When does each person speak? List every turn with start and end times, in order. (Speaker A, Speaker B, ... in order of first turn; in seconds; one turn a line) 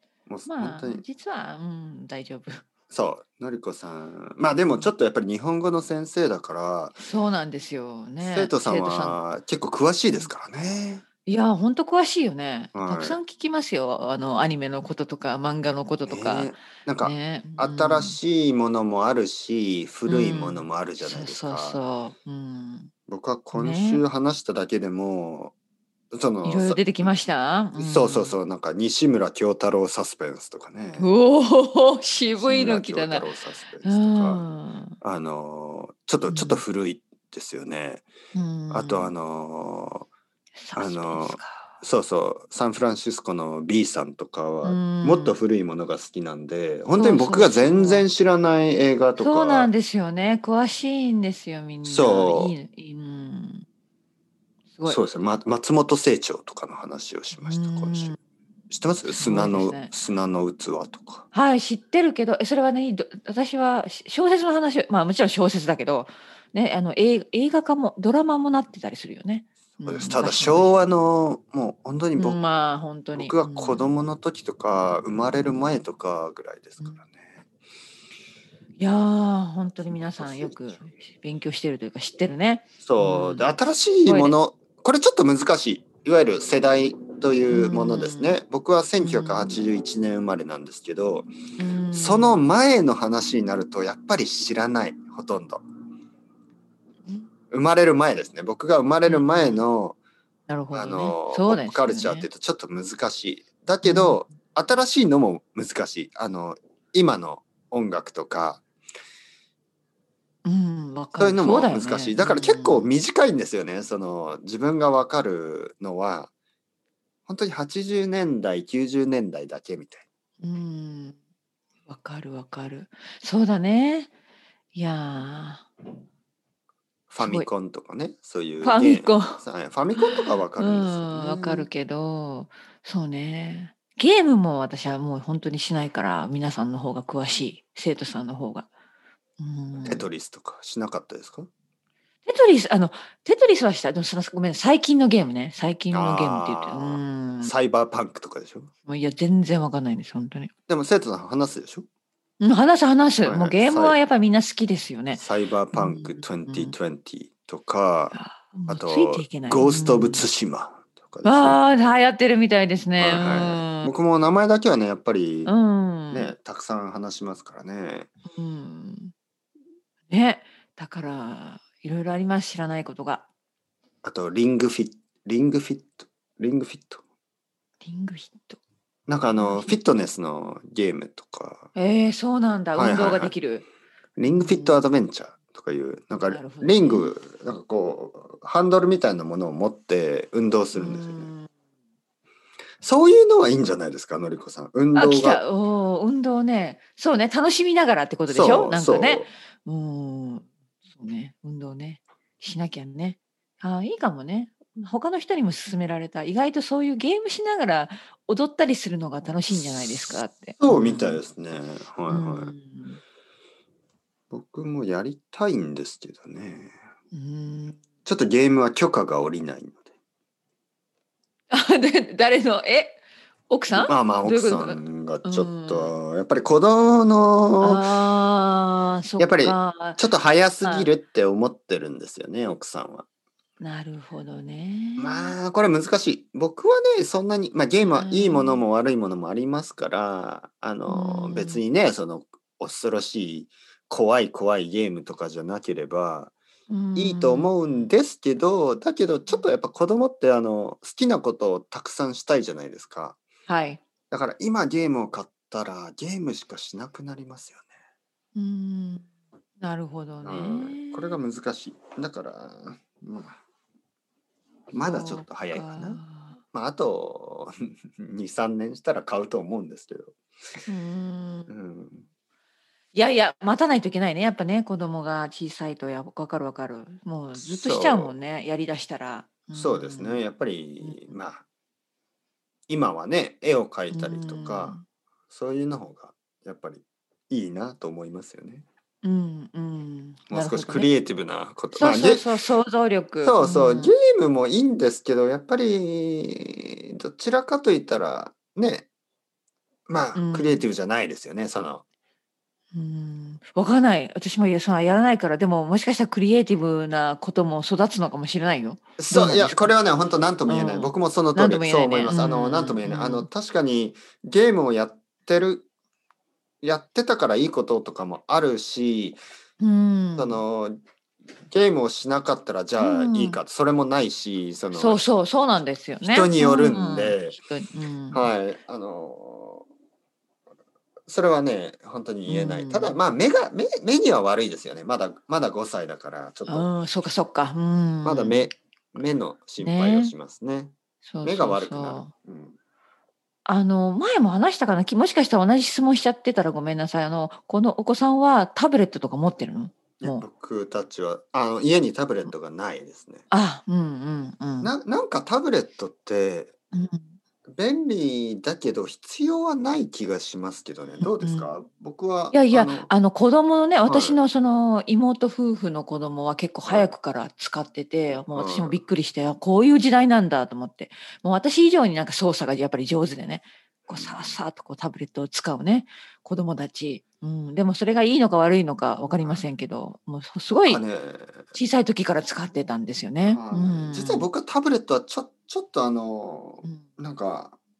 Speaker A: 0.3-1.0
Speaker B: 0.5-2.6
Speaker A: 2.9-7.0
Speaker B: 7.0-9.2
Speaker A: 8.2-11.1
Speaker B: 11.3-18.2
Speaker A: 12.8-13.2
Speaker A: 16.1-21.8
Speaker B: 20.1-22.9
Speaker A: 23.1-25.6
Speaker B: 23.5-24.0
Speaker A: 26.1-27.2
Speaker B: 26.4-28.4
Speaker A: 27.8-31.1
Speaker B: 31.0-33.3
Speaker A: 32.4-34.5
Speaker B: 33.8-35.0
Speaker A: 35.0-38.1
Speaker B: 36.3-36.6
Speaker B: 38.3-39.1
Speaker A: 38.7-40.1
Speaker B: 40.6-41.8
Speaker A: 40.8-49.7
Speaker B: 44.6-45.4
Speaker B: 47.0-48.1
Speaker B: 49.2-53.7
Speaker A: 51.8-52.5
Speaker B: 54.8-55.1
Speaker A: 54.9-58.2
Speaker B: 57.3-58.2
Speaker A: 58.7-61.2
Speaker B: 59.1-59.9
Speaker B: 61.3-70.7
Speaker A: 69.8-72.4
Speaker B: 72.2-74.0
Speaker A: 73.2-77.3
Speaker B: 75.4-75.8
Speaker B: 78.8-84.4
Speaker A: 79.8-80.8
Speaker A: 82.8-91.3
Speaker B: 87.5-88.4
Speaker B: 89.0-89.6
Speaker B: 91.6-92.5
Speaker A: 91.9-95.6
Speaker A: 97.5-100.0
Speaker B: 99.0-99.6
Speaker B: 100.5-102.3
Speaker A: 100.7-108.6
Speaker B: 103.8-104.3
Speaker B: 110.5-112.9
Speaker A: 111.2-116.3
Speaker A: 117.3-120.0
Speaker B: 120.4-121.2
Speaker B: 121.9-124.1
Speaker B: 124.7-125.7
Speaker A: 127.1-131.7
Speaker B: 127.2-127.5
Speaker B: 128.6-129.4
Speaker B: 129.9-138.7
Speaker B: 139.4-140.1
Speaker A: 139.8-141.5
Speaker B: 142.3-147.5
Speaker A: 145.9-148.7
Speaker B: 148.9-150.5
Speaker A: 150.7-151.9
Speaker B: 152.4-156.7
Speaker A: 153.2-154.0
Speaker A: 155.1-161.6
Speaker B: 158.1-160.2
Speaker B: 161.2-163.9
Speaker A: 163.0-165.5
Speaker B: 165.5-166.3
Speaker A: 166.1-168.1
Speaker B: 168.3-169.1
Speaker B: 170.1-173.2
Speaker A: 174.0-177.0
Speaker B: 177.8-178.6
Speaker A: 179.1-181.7
Speaker B: 179.4-179.8
Speaker B: 181.8-183.7
Speaker A: 182.8-183.3
Speaker A: 184.2-191.3
Speaker B: 184.3-184.9
Speaker B: 186.2-187.1
Speaker B: 190.7-191.5
Speaker A: 192.8-195.4
Speaker B: 194.9-211.2
Speaker A: 198.3-199.3
Speaker A: 209.5-212.5
Speaker B: 212.1-213.0
Speaker A: 214.3-216.7
Speaker B: 217.1-217.8
Speaker A: 218.1-219.8
Speaker B: 221.5-226.0
Speaker A: 223.7-227.8
Speaker B: 227.6-230.0
Speaker A: 229.2-233.1
Speaker B: 230.6-230.9
Speaker B: 233.6-235.4
Speaker A: 235.0-246.3
Speaker B: 237.9-238.7
Speaker B: 240.9-241.6
Speaker B: 246.7-247.9
Speaker A: 247.0-253.2
Speaker B: 253.5-253.8
Speaker A: 254.1-257.7
Speaker B: 258.4-259.1
Speaker B: 259.6-261.2
Speaker A: 260.2-263.4
Speaker A: 264.7-266.0
Speaker B: 264.7-266.4
Speaker A: 266.5-270.2
Speaker B: 270.7-271.5
Speaker A: 271.5-272.1
Speaker B: 272.9-280.2
Speaker A: 277.4-278.1
Speaker A: 279.5-281.4
Speaker B: 280.8-281.1
Speaker A: 282.7-288.6
Speaker B: 283.9-284.8
Speaker B: 289.0-290.9
Speaker A: 290.3-292.3
Speaker B: 291.8-293.9
Speaker A: 293.2-298.9
Speaker A: 299.9-301.8
Speaker B: 300.1-300.6
Speaker B: 302.7-309.8
Speaker A: 309.0-315.7
Speaker B: 310.5-313.3
Speaker A: 316.6-319.2
Speaker B: 319.6-320.4
Speaker A: 320.2-320.8
Speaker A: 321.5-325.0
Speaker B: 322.8-323.4
Speaker B: 324.7-328.3
Speaker A: 326.0-327.4
Speaker A: 328.1-329.7
Speaker A: 331.1-336.7
Speaker B: 332.3-333.0
Speaker B: 336.5-338.4
Speaker A: 338.1-342.6
Speaker B: 339.6-340.1
Speaker B: 341.1-342.1
Speaker B: 343.5-350.2
Speaker A: 350.0-353.2
Speaker B: 353.3-354.7
Speaker A: 354.6-356.5
Speaker B: 356.7-357.1
Speaker A: 357.6-362.9
Speaker B: 361.0-361.5
Speaker B: 362.3-380.8
Speaker A: 363.9-364.2
Speaker A: 366.6-366.9
Speaker A: 368.3-368.8
Speaker A: 373.9-374.4
Speaker A: 379.1-379.4
Speaker A: 380.7-381.4
Speaker B: 381.5-384.3
Speaker A: 383.3-387.6